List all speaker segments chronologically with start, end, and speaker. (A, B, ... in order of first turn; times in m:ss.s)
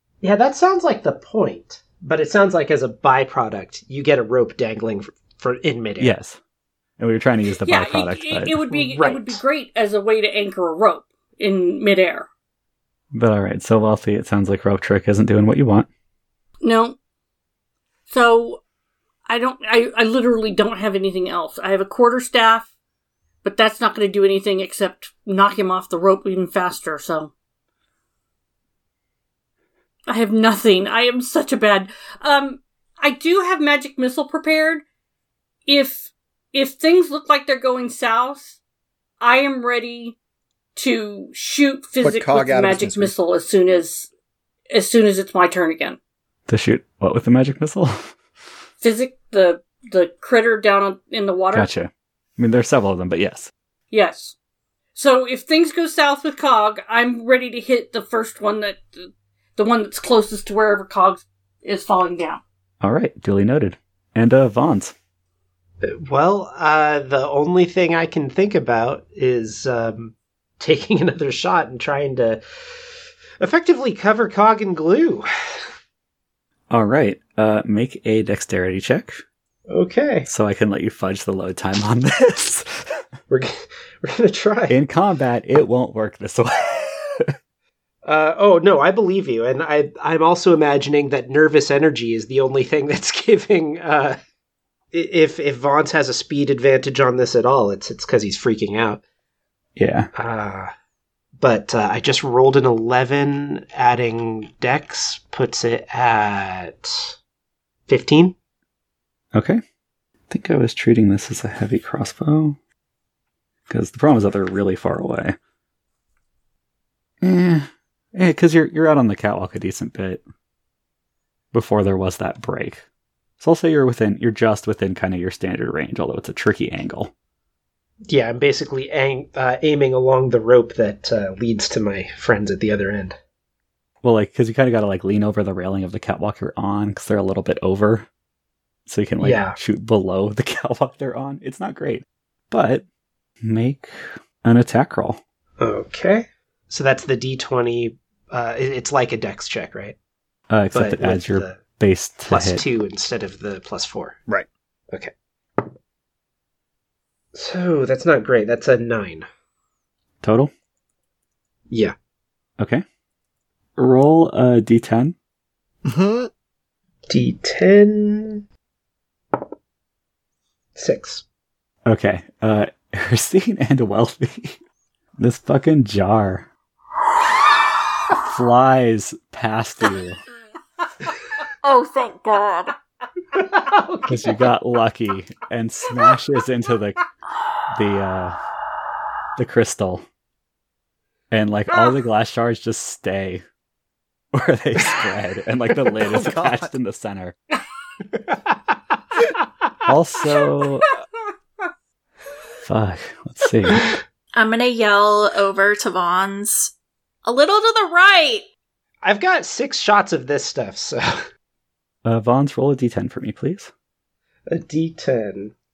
0:00.2-0:06.1 A
0:06.0-0:06.4 B
0:07.0-0:08.6 B
0:07.6-0:12.3 C
0:08.7-0:09.4 A
0:13.1-0:15.9 B
0:16.6-0:17.0 C
0:18.1-0:18.6 C
0:19.3-0:22.7 C
0:23.4-0:27.3 C
0:30.1-0:34.8 C
0:35.7-0:38.6 C
0:39.2-0:40.2 C
0:40.8-0:44.1 C
0:42.0-0:43.1 D
0:44.7-0:46.0 C
0:46.5-0:48.1 B
0:48.8-0:51.7 C
0:51.5-0:53.5 B
0:53.9-0:54.4 C
0:55.0-1:02.4 C
1:02.8-1:04.9 B
1:05.8-1:12.4 A
1:13.4-1:15.2 A
1:16.7-1:19.2 B
1:19.7-1:20.3 A
1:20.3-1:22.8 B
1:23.3-1:24.8 A
1:24.7-1:27.3 B
1:28.1-1:34.2 A
1:34.9-1:39.0 A
1:39.8-1:40.1 B
1:40.2-1:40.7 A
1:41.4-1:47.1 A
1:47.9-1:48.4 A
1:49.3-1:49.6 B
1:50.3-1:52.6 B
1:53.7-1:55.4 B
1:57.2-2:00.2 B
2:01.5-2:02.8 B
2:03.4-2:07.1 B
2:08.1-2:13.2 A
2:14.0-2:18.1 B
2:18.9-2:22.8 B
2:19.2-2:19.6 A
2:23.4-2:25.2 B
2:25.6-2:30.0 A
2:30.5-2:32.6 B
2:30.7-2:31.6 A
2:32.3-2:34.2 A
2:34.9-2:35.7 A
2:37.3-2:39.3 A
2:40.2-2:40.5 B
2:41.7-2:42.0 A
2:42.6-2:42.8 B
2:43.8-2:45.1 B
2:45.8-2:46.3 D
2:47.1-2:48.4 A
2:50.8-2:51.2 A
2:51.9-2:54.6 B
2:55.2-2:56.5 B
2:58.2-3:00.2 B
3:01.6-3:02.7 E
3:03.3-3:04.4 A
3:04.1-3:07.1 B
3:07.7-3:08.4 B
3:09.4-3:10.0 B
3:11.3-3:13.4 B
3:14.3-3:17.4 B
3:16.1-3:16.7 D
3:18.0-3:19.3 A
3:19.9-3:20.9 B
3:22.6-3:23.9 B
3:24.3-3:26.7 E
3:27.2-3:28.4 E
3:29.0-3:31.3 A
3:32.0-3:33.7 B
3:34.5-3:35.5 A